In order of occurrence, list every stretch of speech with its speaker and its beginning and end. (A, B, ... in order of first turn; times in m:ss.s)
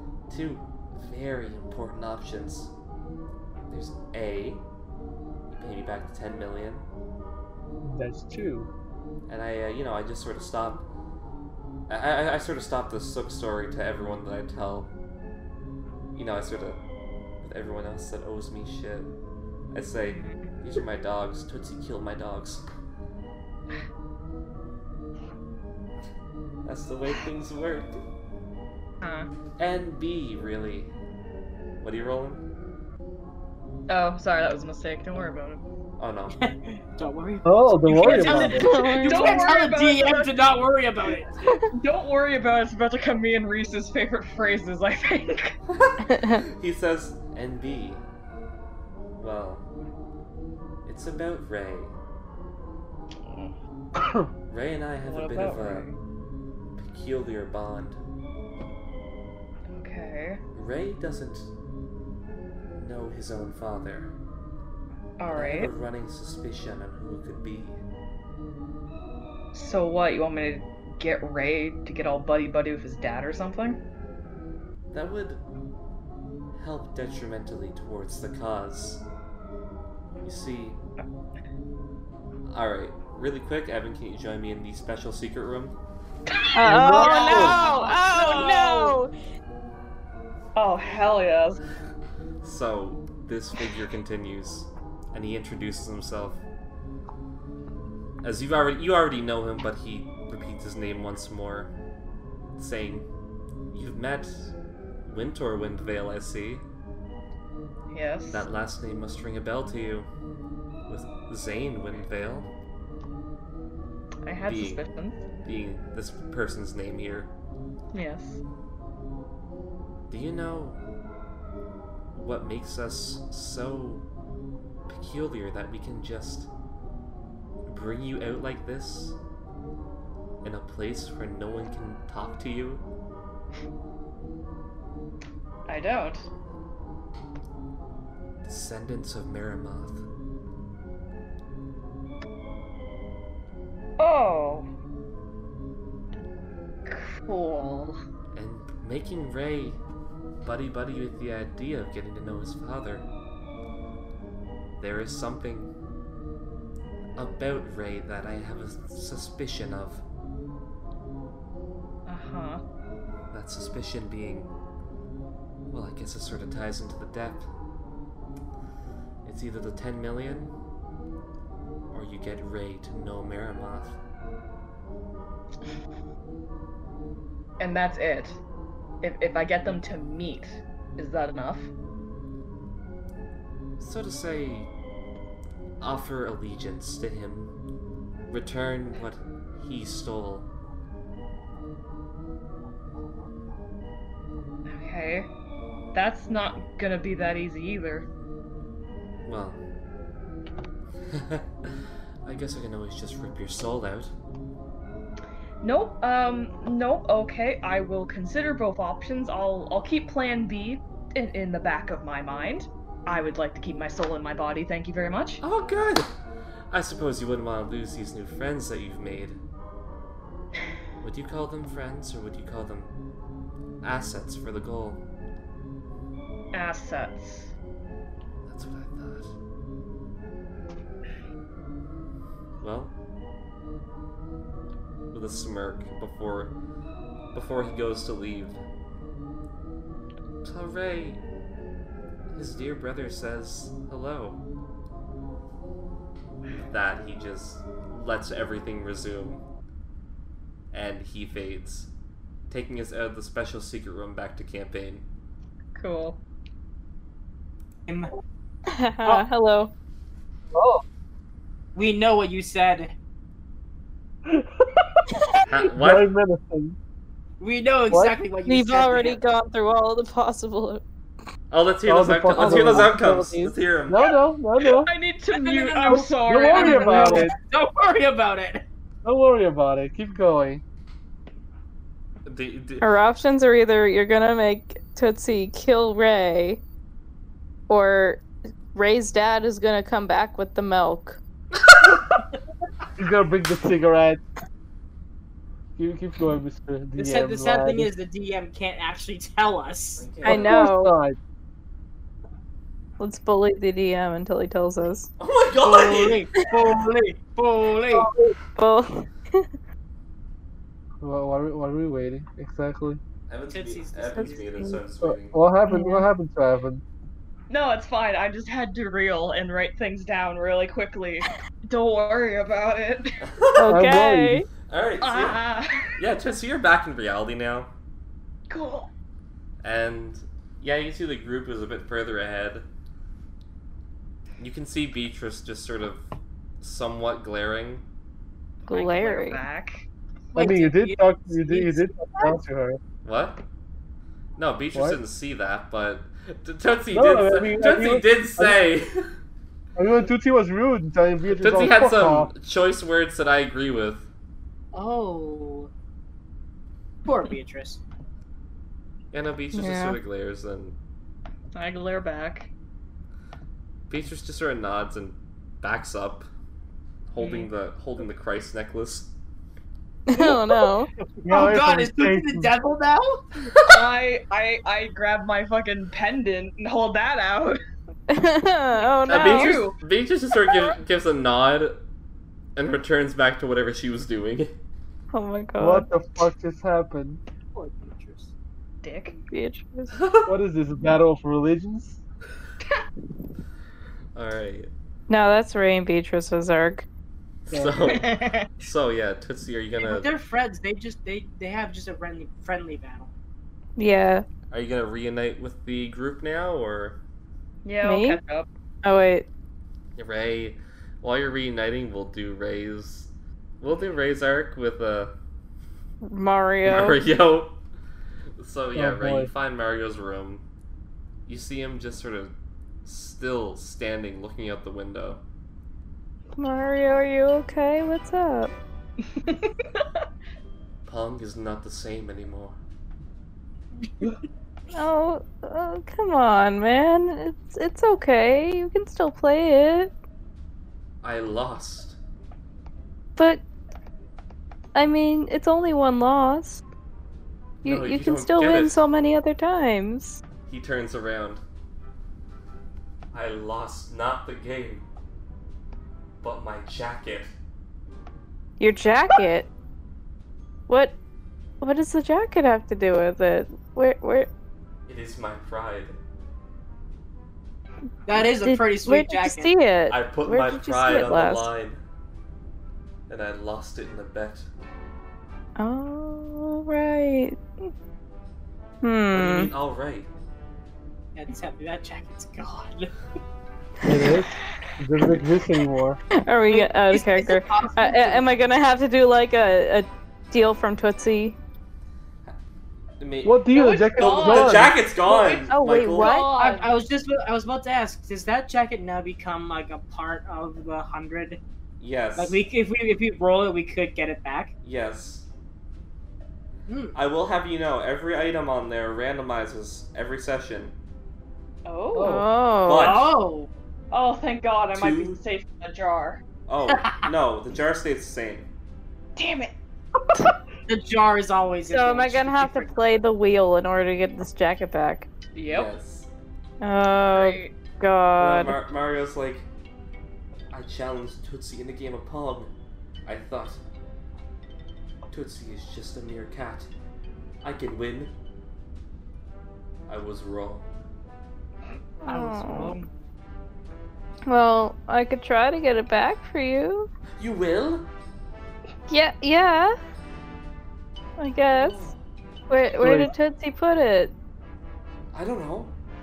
0:00.3-0:02.7 A
0:03.7-0:04.6 A
0:05.5-0:06.8 A
0:07.8-0:08.7 B
0:09.3-0:10.8 A
0:11.9-0:14.9 A
0:16.1-0:16.8 A
0:17.4-0:19.1 A
0:19.7-0:22.6 A
0:20.1-0:20.5 C
0:26.6-0:28.0 A
0:29.0-0:29.3 C
0:29.6-0:30.9 A
0:31.8-0:32.4 A
0:33.9-0:35.6 C
0:36.0-0:36.5 A
0:36.3-0:41.3 D
0:37.4-0:38.7 B
0:38.1-0:40.5 C
0:38.4-0:39.5 E
0:41.4-0:41.7 E
0:41.7-0:45.6 C
0:45.7-0:48.0 A
0:46.0-0:46.4 E
0:49.2-0:49.6 A
0:50.8-0:51.9 A
0:53.2-0:53.5 C
0:54.0-0:54.3 B
0:54.5-0:55.9 A
0:55.0-0:55.9 C
0:56.8-0:58.0 A
0:59.7-1:00.4 C
1:00.5-1:01.5 A
1:02.8-1:04.1 A
1:05.2-1:05.7 C
1:05.3-1:07.8 A
1:09.5-1:13.8 C
1:14.9-1:15.4 A
1:16.5-1:19.0 A
1:20.2-1:20.8 A
1:22.5-1:25.8 A
1:26.3-1:29.0 C
1:26.5-1:29.1 E
1:26.6-1:27.6 B
1:26.7-1:28.9 D
1:30.5-1:31.6 C
1:32.4-1:36.4 A
1:38.2-1:41.7 A
1:42.6-1:43.1 A
1:43.7-1:44.5 A
1:45.0-1:46.6 A
1:47.9-1:48.4 C
1:48.3-1:50.1 A
1:50.9-1:52.5 A
1:54.2-1:55.2 C
1:54.4-1:54.8 A
1:55.4-1:57.3 A
1:57.9-1:58.4 C
2:00.1-2:00.8 A
2:02.1-2:04.0 A
2:04.9-2:06.5 A
2:07.6-2:09.2 A
2:10.4-2:12.8 A
2:15.7-2:16.3 C
2:18.4-2:20.0 A
2:24.0-2:24.6 C
2:26.8-2:28.0 C
2:28.3-2:29.8 A
2:30.4-2:33.1 A
2:34.8-2:35.7 A
2:37.2-2:40.0 A
2:42.1-2:42.6 C
2:43.3-2:44.5 A
2:45.7-2:47.5 A
2:49.2-2:50.5 A
2:51.9-2:54.0 A
2:57.6-2:58.4 C
2:59.0-3:01.7 C
3:03.8-3:04.7 A
3:05.8-3:07.5 A
3:08.3-3:10.5 A
3:14.6-3:15.3 C
3:15.9-3:18.1 C
3:19.2-3:19.6 A
3:21.1-3:21.7 A
3:22.2-3:24.1 A
3:25.6-3:35.4 C
3:35.4-3:36.1 A
3:36.7-3:39.4 A
3:41.0-3:42.9 A
3:43.8-3:45.0 A
3:46.5-3:47.5 C
3:48.5-3:49.3 A
3:52.6-3:52.9 A
3:55.1-3:56.5 A
3:57.3-3:58.6 A
4:00.4-4:01.2 A
4:02.3-4:04.4 A
4:06.5-4:09.4 A
4:10.7-4:11.9 A
4:12.5-4:15.0 A
4:15.7-4:16.2 C
4:18.7-4:19.7 E
4:20.5-4:20.8 B
4:21.7-4:22.9 D
4:24.2-4:25.1 B
4:25.4-4:26.1 A
4:25.7-4:26.8 B
4:27.4-4:29.2 D
4:27.9-4:28.2 B
4:28.4-4:30.8 E
4:31.5-4:34.0 A
4:31.9-4:34.9 B
4:34.6-4:37.2 C
4:35.3-4:38.6 D
4:36.2-4:37.3 B
4:39.0-4:40.6 B
4:42.2-4:42.9 A
4:42.8-4:46.6 E
4:47.7-4:51.2 E
4:53.0-4:54.2 B
4:55.8-4:57.9 B
4:57.0-5:00.1 D
5:00.0-5:00.6 A
5:00.2-5:00.9 E
5:00.2-5:01.2 B
5:03.0-5:05.1 E
5:05.2-5:06.2 A
5:05.6-5:08.1 D
5:06.4-5:06.6 E
5:07.9-5:08.3 B
5:08.4-5:09.5 E
5:11.0-5:13.0 B
5:13.3-5:15.4 A
5:13.5-5:14.7 D
5:15.0-5:16.8 B
5:15.7-5:16.0 E
5:17.5-5:23.2 C
5:23.2-5:23.8 A
5:23.6-5:24.5 E
5:23.6-5:24.4 B
5:24.6-5:25.4 A
5:25.0-5:25.9 C
5:25.9-5:27.7 A
5:28.5-5:28.9 C
5:29.6-5:32.6 A
5:34.4-5:36.0 A
5:36.6-5:37.8 A
5:38.7-5:39.4 E
5:38.7-5:39.8 C
5:40.3-5:42.4 D
5:40.3-5:42.8 B
5:43.0-5:43.4 A
5:44.4-5:49.1 A
5:46.9-5:48.6 B
5:49.8-5:52.3 B
5:51.4-5:54.1 A
5:54.7-5:55.7 D
5:57.0-5:57.8 D
5:59.1-6:00.7 A
5:59.5-6:00.0 E
6:01.5-6:02.5 C
6:03.9-6:06.3 A
6:07.1-6:09.1 A
6:07.2-6:07.5 C
6:10.1-6:10.9 E
6:10.2-6:10.5 D
6:11.2-6:12.5 B
6:11.3-6:13.2 D
6:13.5-6:13.8 A
6:13.6-6:17.6 C
6:18.1-6:19.6 E
6:18.8-6:19.8 C
6:19.1-6:21.8 A
6:22.5-6:24.5 A
6:25.1-6:25.9 E
6:25.6-6:27.2 B
6:27.5-6:28.3 D
6:28.8-6:29.2 C
6:29.3-6:29.9 E
6:29.9-6:30.3 A
6:30.3-6:32.0 B
6:34.1-6:34.7 A
6:35.1-6:36.8 E
6:37.5-6:40.1 A
6:37.5-6:37.8 B
6:37.9-6:38.5 C
6:39.8-6:43.1 D
6:43.8-6:44.2 E
6:44.5-6:47.0 A
6:47.6-6:48.4 C
6:47.8-6:48.2 E
6:48.8-6:49.2 E
6:50.0-6:55.1 A
6:56.0-6:57.0 E
6:56.6-6:57.6 A
6:58.4-7:00.4 A
6:58.8-6:59.3 B
7:01.3-7:02.3 A
7:02.8-7:05.2 A
7:06.4-7:08.5 E
7:09.2-7:09.8 C
7:10.8-7:12.6 A
7:14.7-7:19.9 E
7:21.0-7:22.0 A
7:23.2-7:23.4 E
7:24.7-7:26.6 E
7:27.6-7:30.2 E
7:27.6-7:28.8 A
7:30.4-7:31.4 A
7:33.1-7:34.8 A
7:36.2-7:37.3 A
7:38.6-7:39.5 E
7:40.7-7:41.0 E
7:41.6-7:44.3 E
7:44.9-7:46.0 A
7:48.1-7:49.5 D
7:48.1-7:51.5 E
7:49.9-7:51.8 A
7:53.1-7:54.5 A
7:55.6-7:57.4 E
7:58.8-7:59.5 E
7:59.1-8:00.1 A
8:01.1-8:02.9 D
8:03.8-8:06.0 B
8:06.2-8:11.4 E
8:06.5-8:08.3 D
8:13.0-8:16.1 A
8:13.2-8:14.7 B
8:13.5-8:16.7 C
8:15.5-8:16.3 E
8:16.4-8:21.4 D
8:21.8-8:22.4 A
8:22.2-8:24.5 D
8:24.6-8:25.2 A
8:26.7-8:27.0 D
8:26.9-8:30.7 A
8:31.6-8:32.2 C
8:31.9-8:32.3 B
8:32.0-8:33.0 E
8:32.6-8:33.1 A
8:32.8-8:33.5 D
8:33.9-8:36.2 C
8:34.7-8:35.2 A
8:36.5-8:38.5 A
8:36.7-8:37.0 D
8:39.2-8:39.5 C
8:40.7-8:43.0 D
8:41.6-8:45.1 E
8:45.3-8:45.7 C
8:45.5-8:46.1 A
8:46.6-8:48.6 E
8:47.1-8:47.5 C
8:48.2-8:49.5 A
8:50.5-8:52.5 A
8:53.0-8:53.6 A
8:55.1-8:56.7 A
8:57.4-8:58.1 A
8:59.9-9:00.7 A
9:02.0-9:02.8 E
9:02.0-9:02.9 D
9:04.3-9:06.9 E
9:07.2-9:07.9 A
9:08.9-9:09.8 E
9:11.2-9:11.9 E
9:11.5-9:12.0 A
9:12.5-9:14.1 E
9:12.8-9:13.1 B
9:15.1-9:15.7 A